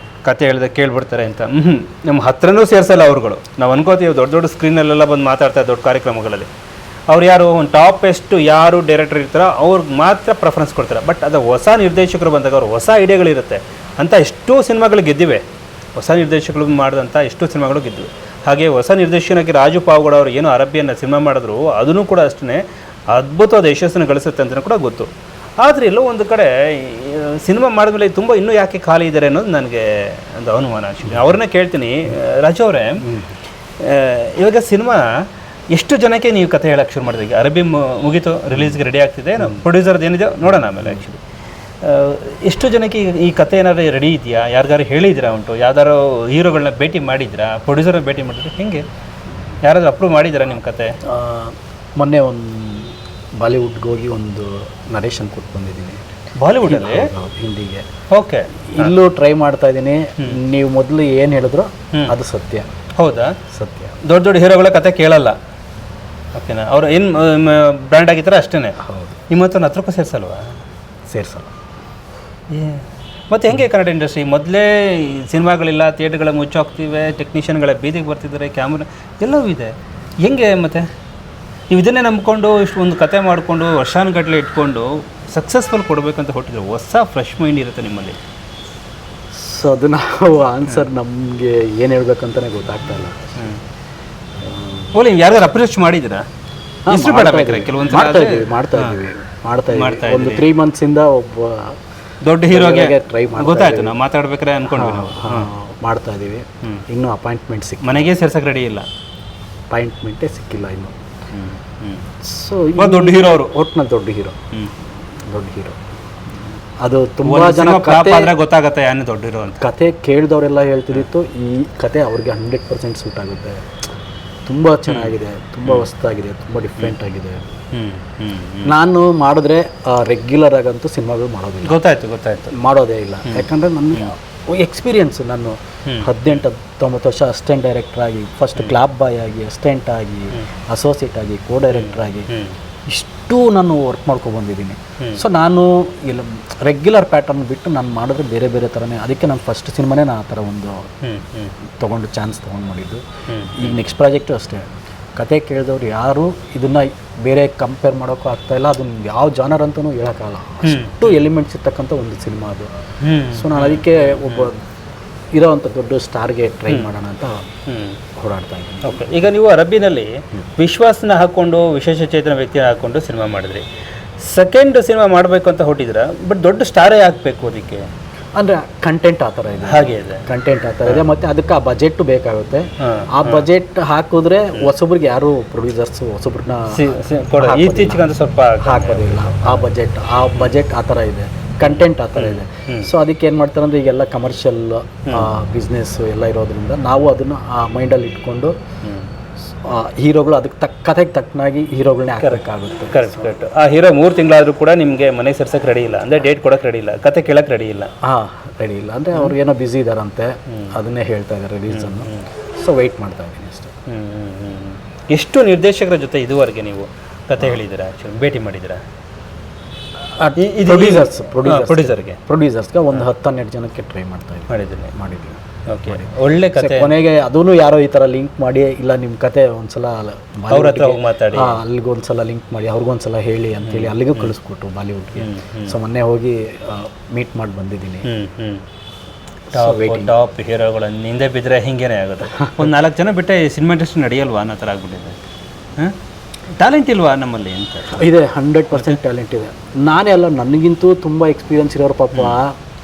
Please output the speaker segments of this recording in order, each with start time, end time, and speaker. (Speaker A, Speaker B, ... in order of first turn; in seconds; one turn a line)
Speaker A: 0.2-6.5
Speaker A: 7.1-15.4
Speaker A: 15.9-33.1
Speaker B: 33.0-33.3
Speaker A: 33.8-41.2
Speaker A: 41.8-48.8
Speaker A: 49.6-51.0
Speaker B: 51.0-56.1
Speaker A: 56.4-57.1
Speaker B: 56.6-57.9
Speaker A: 58.1-58.9
Speaker B: 58.7-62.7
Speaker A: 63.0-63.4
Speaker B: 63.5-64.0
Speaker A: 64.0-65.4
Speaker A: 66.3-68.8
Speaker B: 68.8-69.2
Speaker A: 69.3-70.5
Speaker B: 71.1-71.5
Speaker A: 72.5-79.7
Speaker A: 80.2-80.9
Speaker A: 81.7-88.2
Speaker B: 89.3-93.2
Speaker B: 94.4-94.9
Speaker A: 94.9-96.2
Speaker B: 96.9-101.8
Speaker A: 96.9-98.9
Speaker A: 99.7-100.5
Speaker A: 102.2-105.5
Speaker B: 102.5-104.0
Speaker B: 104.7-108.1
Speaker A: 107.8-108.9
Speaker B: 109.7-110.9
Speaker A: 111.3-112.1
Speaker B: 112.2-114.4
Speaker A: 112.8-113.5
Speaker B: 115.2-115.8
Speaker B: 116.8-118.3
Speaker A: 117.2-119.7
Speaker B: 119.6-123.7
Speaker B: 124.5-127.5
Speaker A: 124.9-125.2
Speaker A: 127.7-128.7
Speaker B: 128.7-131.8
Speaker A: 131.7-132.5
Speaker B: 132.5-142.3
Speaker A: 133.3-134.1
Speaker A: 141.7-142.6
Speaker B: 142.9-150.8
Speaker A: 151.0-151.5
Speaker B: 151.8-153.0
Speaker A: 153.3-153.8
Speaker B: 153.5-162.7
Speaker A: 160.6-161.3
Speaker A: 163.0-164.5
Speaker B: 163.3-164.6
Speaker B: 165.3-167.4
Speaker A: 167.7-168.0
Speaker B: 168.2-169.2
Speaker A: 168.8-173.6
Speaker A: 174.2-177.9
Speaker B: 178.4-188.1
Speaker A: 179.7-180.2
Speaker A: 182.8-183.5
Speaker A: 186.7-189.7
Speaker B: 188.6-198.5
Speaker A: 191.7-192.9
Speaker A: 195.1-195.3
Speaker A: 198.8-199.1
Speaker B: 199.6-203.3
Speaker A: 202.2-207.9
Speaker B: 208.0-213.7
Speaker A: 211.7-212.3
Speaker A: 213.9-218.8
Speaker B: 220.2-238.1
Speaker A: 220.4-222.2
Speaker A: 224.5-224.9
Speaker A: 225.7-226.9
Speaker A: 230.5-231.6
Speaker A: 233.6-234.3
Speaker A: 235.2-235.8
Speaker A: 238.1-238.6
Speaker B: 239.5-240.1
Speaker A: 239.5-245.2
Speaker B: 242.3-242.7
Speaker A: 246.6-248.1
Speaker B: 247.9-252.6